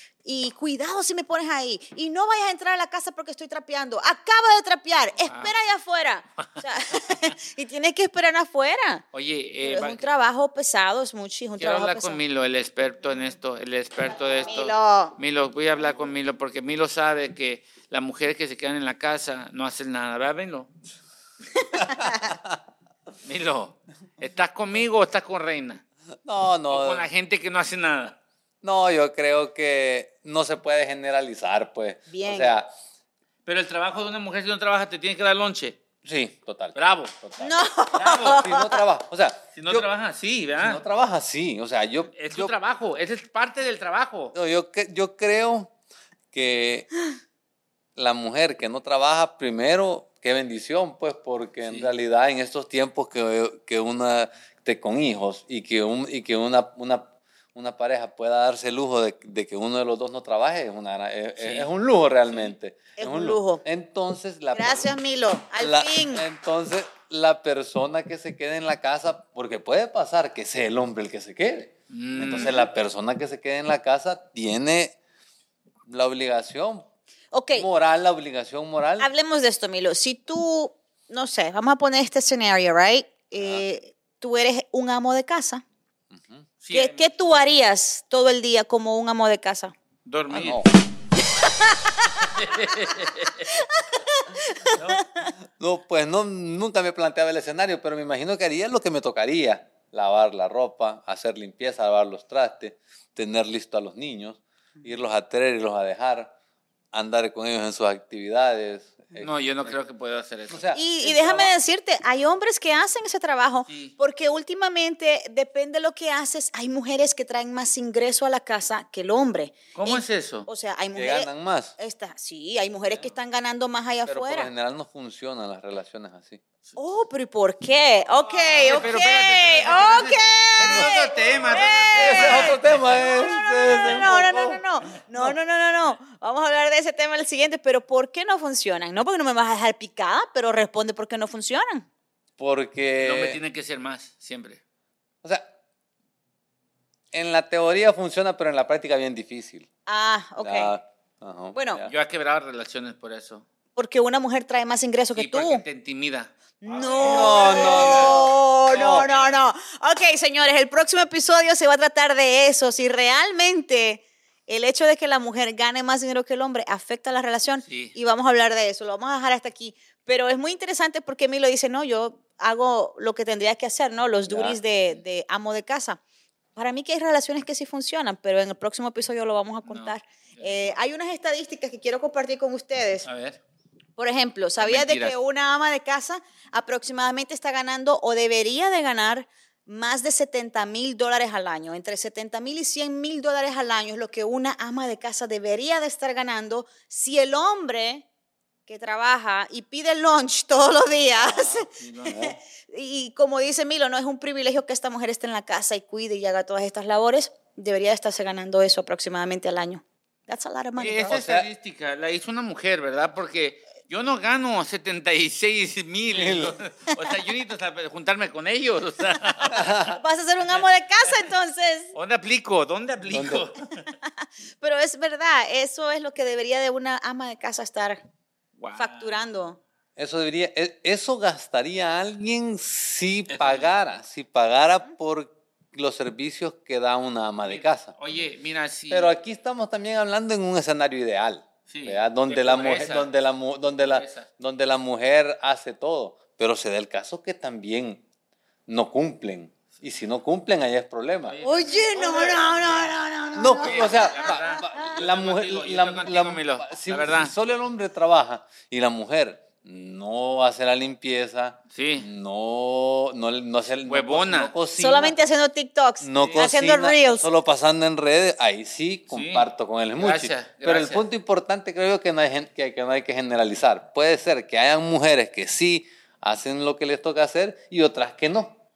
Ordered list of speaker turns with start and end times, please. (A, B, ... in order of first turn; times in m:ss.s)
0:00.2-0:09.0 A
0:05.2-0:05.6 B
0:06.4-0:07.4 B
0:09.1-0:10.1 B
0:09.6-0:12.2 A
0:11.6-0:20.7 B
0:14.4-0:15.2 A
0:21.8-0:22.1 A
0:22.0-0:22.4 C
0:23.2-0:25.8 B
0:26.2-0:27.1 C
0:26.7-0:28.2 B
0:28.6-0:32.7 C
0:32.1-0:32.6 A
0:33.4-0:35.8 B
0:36.0-0:37.5 C
0:36.8-0:37.2 B
0:37.4-0:38.9 A
0:37.9-0:38.4 B
0:38.3-0:39.9 C
0:39.5-0:40.8 B
0:40.6-0:42.5 C
0:42.1-0:44.4 B
0:44.3-0:45.7 C
0:46.3-0:46.9 C
0:48.0-1:04.9 C
0:51.6-0:51.9 B
1:01.4-1:01.7 B
1:03.0-1:03.6 A
1:04.5-1:06.2 A
1:05.6-1:15.0 C
1:11.9-1:12.5 B
1:15.9-1:16.9 C
1:17.3-1:17.7 A
1:17.5-1:19.1 C
1:19.0-1:25.6 A
1:23.4-1:23.6 C
1:26.1-1:26.5 C
1:26.6-1:27.2 B
1:26.7-1:29.7 A
1:30.0-1:30.7 B
1:30.3-1:30.7 C
1:31.4-1:32.3 A
1:32.2-1:33.5 B
1:33.4-1:35.3 A
1:34.7-1:35.0 B
1:35.6-1:46.3 C
1:46.9-1:49.8 C
1:49.2-1:50.7 B
1:50.5-1:51.5 C
1:50.7-2:04.5 A
1:53.6-1:53.9 B
1:59.8-2:00.5 B
2:01.0-2:01.7 C
2:04.1-2:06.4 C
2:06.8-2:21.9 A
2:08.5-2:12.9 B
2:10.6-2:11.0 C
2:12.0-2:14.6 C
2:22.4-2:23.4 C
2:23.0-2:24.6 B
2:25.2-2:25.5 C
2:27.1-2:29.6 C
2:29.9-2:30.7 A
2:30.4-2:31.9 C
2:31.5-2:31.8 A
2:31.8-2:33.4 B
2:33.8-2:35.6 A
2:35.1-2:36.3 B
2:36.6-2:56.0 A
2:37.0-2:39.1 C
2:37.3-2:39.4 B
2:47.6-2:48.0 B
2:54.3-2:54.6 C
2:56.6-3:03.1 A
2:59.6-3:00.8 B
3:03.0-3:03.4 B
3:04.0-3:18.0 A
3:04.6-3:05.2 B
3:18.7-3:31.2 A
3:21.1-3:22.4 C
3:21.7-3:22.2 B
3:30.8-3:39.7 B
3:31.1-3:31.5 C
3:36.1-3:36.6 C
3:39.5-3:39.9 C
3:39.7-3:41.9 A
3:40.4-3:41.3 B
3:41.9-3:43.9 B
3:43.1-3:43.5 C
3:44.6-3:48.0 A
3:48.6-3:49.3 B
3:48.8-3:49.6 A
3:50.0-3:58.0 C
3:53.3-3:53.8 B
3:57.5-3:59.1 B
3:58.9-4:08.0 C
4:01.7-4:03.1 B
4:03.8-4:04.3 B
4:08.7-4:11.4 C
4:11.2-4:13.0 B
4:11.4-4:15.0 A
4:13.4-4:25.2 C
4:13.6-4:17.4 B
4:21.7-4:22.1 B
4:23.8-4:24.6 B
4:24.7-4:27.3 A
4:26.0-4:38.6 C
4:26.2-4:26.5 B
4:29.1-4:31.1 B